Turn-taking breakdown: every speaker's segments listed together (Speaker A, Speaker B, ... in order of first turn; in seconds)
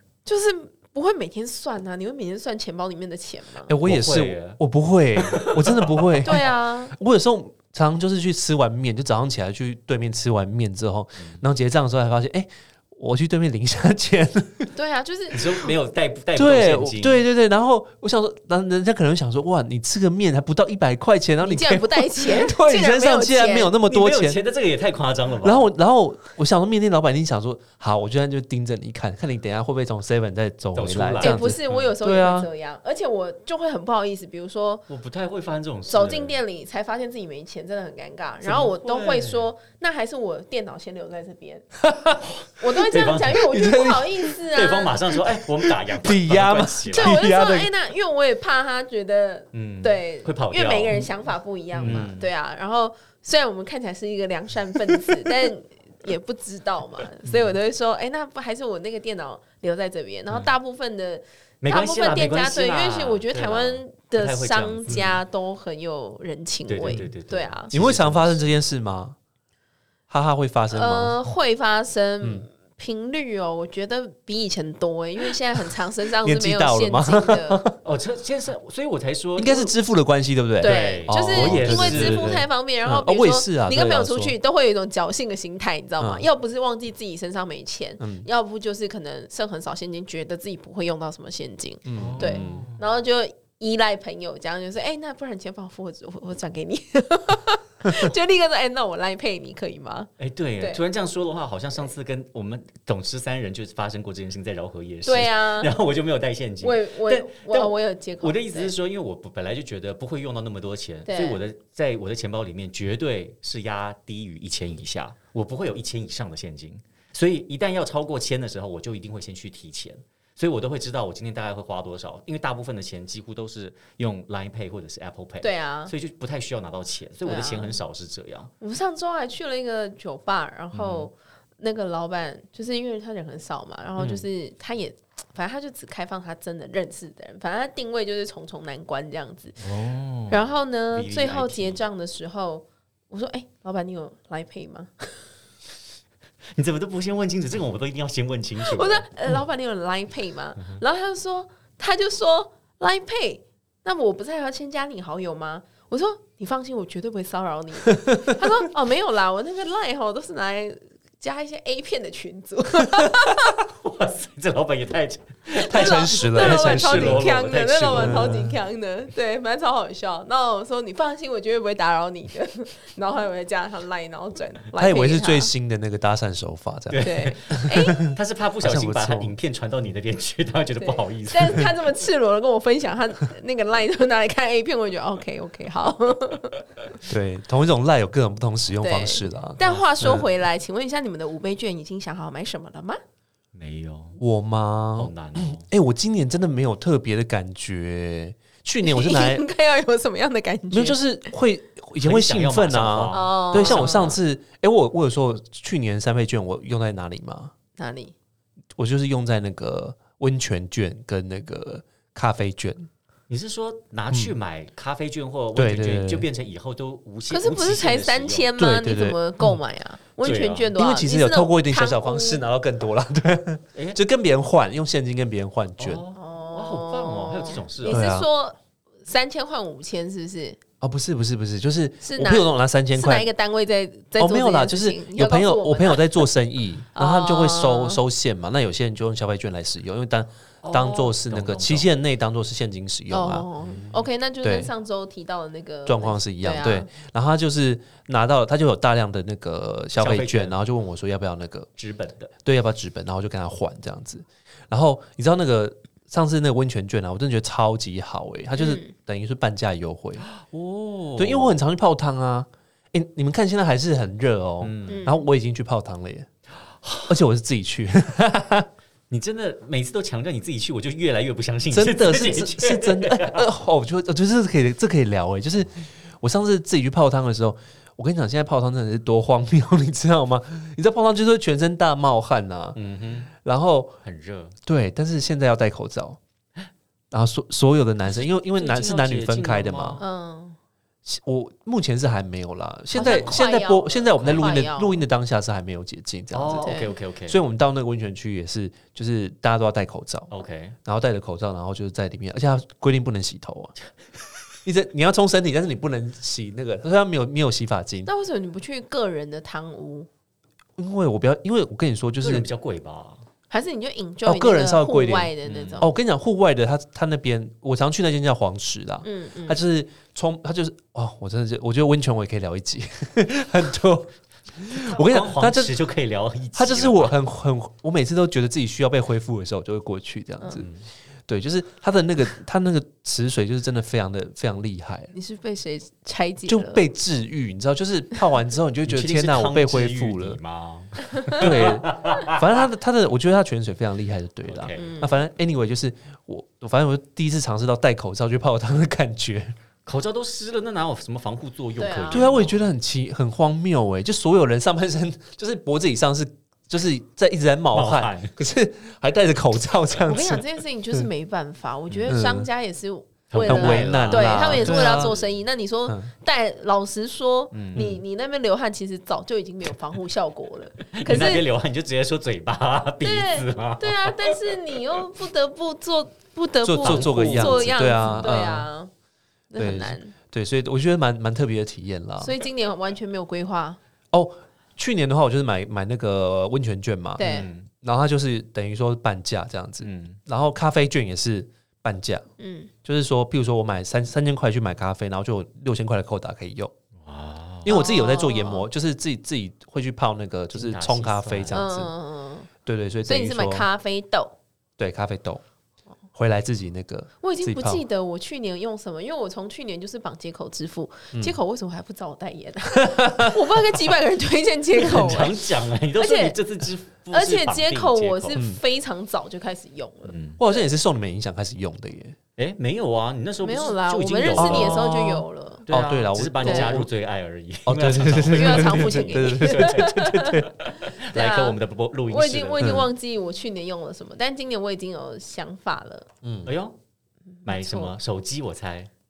Speaker A: 0.2-3.7, 6.2-6.9, 14.7-15.4, 21.4-23.8, 31.2-34.8, 35.9-41.7, 42.6-45.0, 46.9-67.7, 70.7-77.6, 80.6-100.1, 105.0-105.7, 106.6-108.7, 111.1-111.4, 125.4-125.9, 127.2-127.8, 128.6-139.6, 140.3-145.2, 148.6-163.5, 165.6-175.5, 177.0-178.1, 180.8-186.6, 188.8-193.0, 198.8-201.0, 203.1-204.1, 207.8-208.1, 217.3-222.4, 226.1-230.6, 232.0-236.3, 236.9-238.0, 243.1-246.9, 258.6-258.9, 264.9-265.2, 290.0-290.6, 292.9-295.0, 296.6-296.9, 308.1-310.1, 313.5-315.9, 319.0-319.6, 335.1-336.8, 344.8-345.2, 351.8-352.4, 360.1-371.4, 373.0-378.9, 379.5-380.1, 382.2-383.8, 387.2-387.5, 392.4-392.7, 397.7-398.7, 401.5-402.5, 403.1-404.4, 407.2-415.4, 415.9-416.4, 417.1-420.6, 423.4-425.6, 426.4-426.8, 428.3-431.6, 432.1-436.1, 437.4-437.9
Speaker B: 3.6-14.7, 16.3-24.4, 25.4-32.5, 41.8-42.2, 43.5-44.3, 45.2-47.7, 51.7-52.1, 67.7-69.2, 70.1-71.1, 76.2-77.8, 79.4-84.3, 86.0-86.3, 88.0-88.3, 91.8-92.7, 134.0-134.2, 165.7-168.6, 174.8-179.3, 187.1-190.3, 194.2-199.4, 200.7-207.5, 208.8-212.9, 215.5-216.2, 218.6-219.6, 220.8-226.0, 227.8-228.3, 230.8-233.3, 234.2-244.7, 245.8-251.7, 252.4-260.3, 261.2-266.3, 267.1-268.7, 271.7-282.8, 283.4-283.9, 284.6-286.2, 287.1-290.0, 291.0-296.7, 297.3-300.3, 300.8-303.7, 304.6-308.1, 310.8-312.5, 314.2-325.8, 326.5-330.7, 331.3-335.1, 336.5-340.4, 341.4-349.5, 352.1-361.1, 362.1-362.5, 363.4-365.1, 376.6-378.7, 379.6-382.3, 384.1-387.3, 387.8-392.2, 392.8-396.7, 397.6-401.9, 402.6-403.7, 404.8-405.4, 406.1-407.8, 412.8-413.4, 420.4-422.2, 424.3-426.9, 427.6-430.5, 432.6-432.9, 436.2-436.5
Speaker C: 3.8-4.6, 5.1-6.3, 15.3-17.2, 23.9-25.7, 30.7-31.9, 34.9-36.4, 38.4-39.5, 42.4-43.4, 44.5-47.2, 49.5-51.1, 51.8-52.3, 61.6-65.2, 66.7-68.4, 77.8-79.7, 80.6-82.4, 92.0-92.8, 100.2-128.5, 130.7-131.1, 139.6-141.8, 146.5-149.1, 163.6-168.4, 176.9-181.7, 193.5-194.2, 194.9-195.6, 202.0-204.2, 213.3-218.5, 220.2-220.7, 225.8-228.0, 240.6-241.9, 250.0-250.6, 251.8-252.3, 260.2-261.6, 264.6-265.1, 266.8-267.2, 269.1-273.4, 282.7-283.3, 284.0-284.5, 288.4-290.0, 293.0-293.4, 296.3-297.4, 300.3-300.8, 312.2-313.2, 315.4-315.8, 324.7-327.1, 330.6-330.8, 338.9-342.5, 344.4-344.9, 349.9-352.6, 357.7-358.3, 363.3-365.4, 367.5-368.0, 370.9-374.4, 376.8-377.7, 387.2-387.7, 389.8-390.2, 397.0-397.8, 400.5-401.6, 414.8-418.4, 420.1-420.4, 422.4-424.9, 425.6-432.8, 436.4-436.7, 437.4-438.9